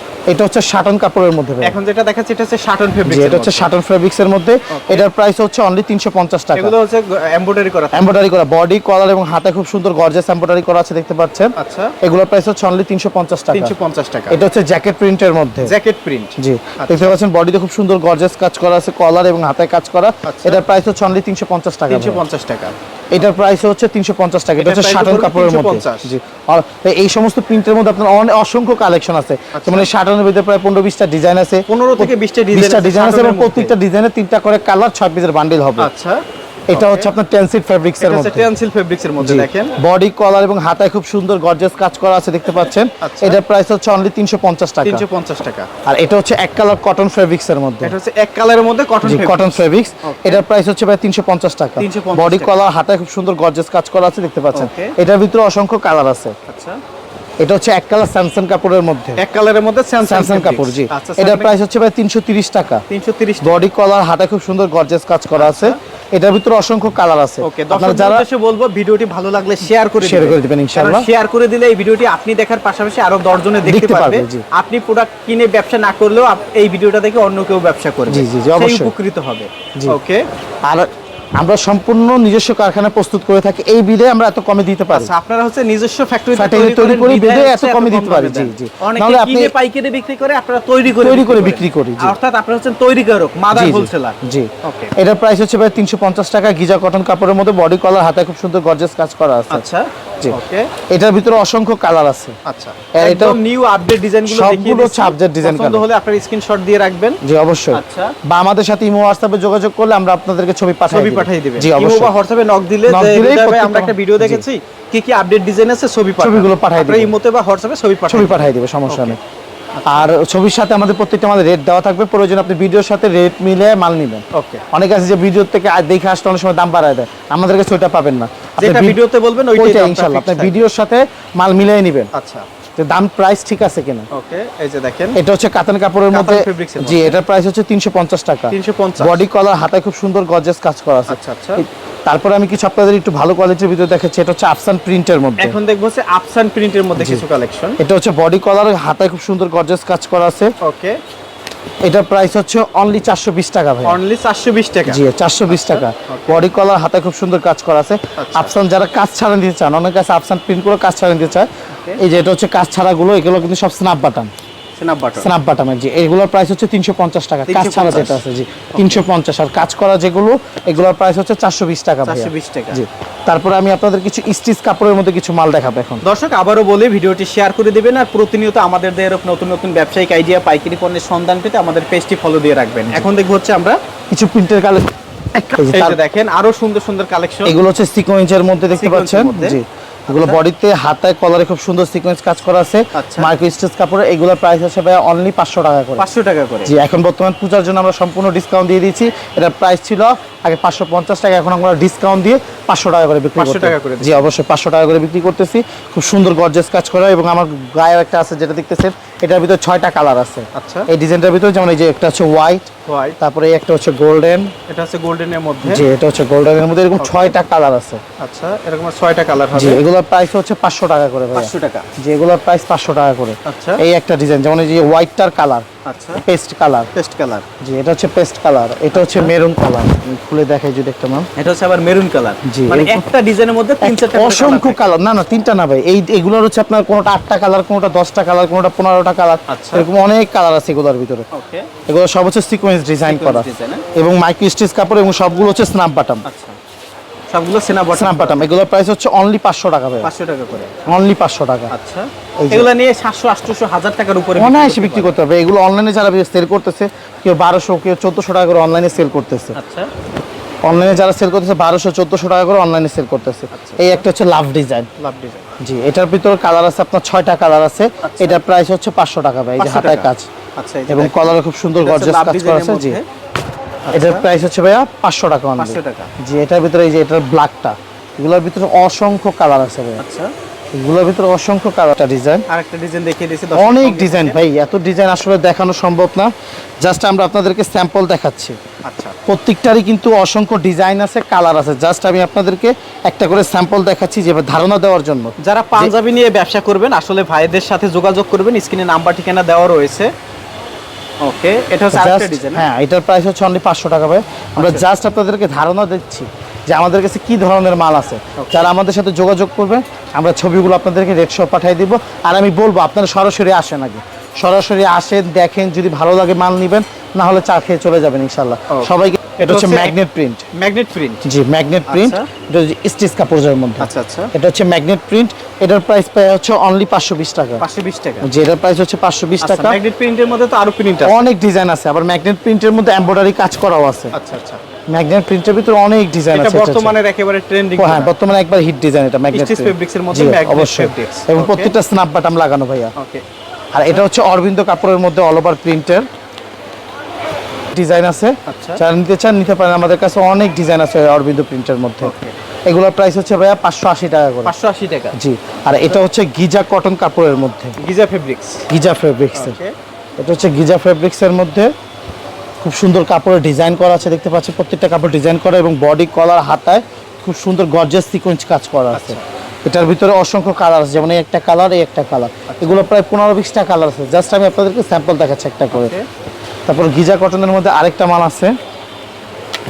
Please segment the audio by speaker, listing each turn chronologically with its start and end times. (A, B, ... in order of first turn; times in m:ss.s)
0:00.3-0:01.8 A
0:01.6-0:03.7 B
0:03.1-0:06.7 A
0:04.7-0:05.1 B
0:06.6-0:08.2 B
0:07.9-0:13.8 A
0:11.6-0:12.0 B
0:13.5-0:14.4 B
0:14.3-0:15.7 A
0:15.6-0:17.2 B
0:16.4-0:22.2 A
0:20.3-0:20.6 B
0:21.9-0:22.8 B
0:23.1-0:35.9 A
0:24.6-0:26.1 B
0:29.5-0:29.9 B
0:31.7-0:33.8 B
0:35.8-0:37.1 B
0:36.7-0:38.5 A
0:38.0-0:39.8 B
0:39.2-0:45.0 A
0:43.0-0:43.4 B
0:44.8-0:45.7 B
0:45.8-0:48.0 A
0:47.8-0:50.4 B
0:49.0-0:56.4 A
0:51.8-0:52.6 B
0:54.5-0:55.0 B
0:56.5-0:56.8 B
0:57.4-0:59.2 A
0:59.2-1:01.6 B
1:00.0-1:02.8 A
1:02.9-1:03.6 B
1:03.4-1:08.2 A
1:05.4-1:05.8 B
1:07.4-1:20.3 B
1:10.0-1:11.1 A
1:13.6-1:14.4 A
1:18.1-1:18.9 A
1:20.6-1:25.1 A
1:24.9-1:35.0 B
1:26.3-1:29.5 A
1:30.9-1:32.2 A
1:33.5-1:39.6 A
1:39.5-1:40.7 B
1:40.9-1:42.4 A
1:42.4-1:47.2 B
1:42.9-1:43.4 A
1:44.3-1:45.9 A
1:47.2-1:52.2 A
1:47.7-1:48.2 B
1:50.9-1:59.2 B
1:52.9-1:54.4 A
1:56.2-1:57.1 A
1:58.1-1:59.2 A
1:59.8-2:00.1 B
1:59.9-2:09.0 A
2:04.3-2:04.6 B
2:08.6-2:10.6 B
2:09.5-2:12.1 A
2:12.1-2:12.5 B
2:12.8-2:14.1 A
2:14.1-2:15.2 B
2:15.2-2:25.6 A
2:16.1-2:17.2 B
2:18.5-2:19.2 B
2:21.1-2:21.6 B
2:25.4-2:27.8 B
2:27.8-2:30.5 A
2:30.6-2:31.0 B
2:31.8-2:34.0 A
2:33.8-2:36.4 B
2:34.9-2:44.3 A
2:38.2-2:38.5 B
2:41.7-2:42.0 B
2:44.8-2:45.3 B
2:45.2-2:56.0 A
2:47.5-2:48.2 B
2:48.7-2:49.1 B
2:52.0-2:52.8 B
2:56.0-3:03.8 B
3:04.1-3:06.0 A
3:05.6-3:07.6 B
3:07.5-3:16.0 A
3:08.7-3:09.6 B
3:10.1-3:10.4 B
3:13.0-3:13.3 B
3:16.0-3:16.8 B
3:16.7-3:34.5 A
3:23.4-3:24.3 B
3:30.5-3:30.9 B
3:32.9-3:33.2 B
3:34.7-3:35.8 B
3:35.6-3:38.0 A
3:37.0-3:37.4 B
3:38.2-3:39.8 B
3:39.6-3:45.7 A
3:41.3-3:41.9 B
3:43.4-3:43.8 B
3:45.8-3:46.2 B
3:46.3-3:46.9 A
3:46.9-3:47.5 B
3:47.6-3:51.3 A
3:48.9-3:49.3 B
3:51.4-3:54.8 B
3:52.4-3:53.0 A
3:53.8-4:01.3 A
3:59.5-3:59.9 B
4:01.3-4:01.7 B
4:01.9-4:06.2 A
4:03.0-4:03.9 B
4:06.2-4:06.6 B
4:07.3-4:08.5 B
4:08.0-4:10.1 A
4:10.0-4:10.7 B
4:10.9-4:11.7 A
4:11.7-4:15.2 B
4:12.4-4:12.7 A
4:14.4-4:19.6 A
4:19.5-4:19.9 B
4:20.6-4:24.9 A
4:23.5-4:24.0 B
4:25.0-4:25.5 B
4:25.6-4:30.3 A
4:28.0-4:28.4 B
4:29.6-4:33.1 B
4:30.9-4:33.0 A
4:33.8-4:34.3 B
4:33.9-4:40.0 A
4:35.6-4:36.1 B
4:40.0-4:40.3 B
4:40.7-4:42.4 A
4:42.5-4:44.4 B
4:43.5-4:48.6 A
4:48.8-4:49.2 B
4:49.3-4:55.9 A
4:55.4-5:00.1 B
5:01.2-5:02.7 B
5:01.9-5:20.4 A
5:04.6-5:04.9 B
5:08.4-5:08.7 B
5:18.7-5:20.0 B
5:20.6-5:21.2 B
5:21.2-5:27.6 A
5:21.9-5:22.3 B
5:23.8-5:24.3 B
5:27.6-5:28.3 B
5:28.2-5:29.8 A
5:29.4-5:31.3 B
5:31.0-5:34.1 A
5:34.1-5:34.6 B
5:34.9-5:36.9 A
5:36.3-5:38.2 B
5:37.8-5:42.9 A
5:39.3-5:41.8 B
5:43.0-5:43.2 B
5:43.7-5:46.1 A
5:47.7-5:52.2 A
5:48.5-5:48.8 B
5:52.0-5:52.4 B
5:52.7-5:54.5 A
5:54.4-5:55.2 B
5:55.1-5:57.8 A
5:57.8-5:58.7 B
5:58.7-5:59.6 A
5:59.3-5:59.8 B
6:00.2-6:01.7 A
6:02.6-6:15.9 A
6:08.9-6:09.2 B
6:12.5-6:12.9 B
6:15.7-6:16.1 B
6:16.7-6:18.6 A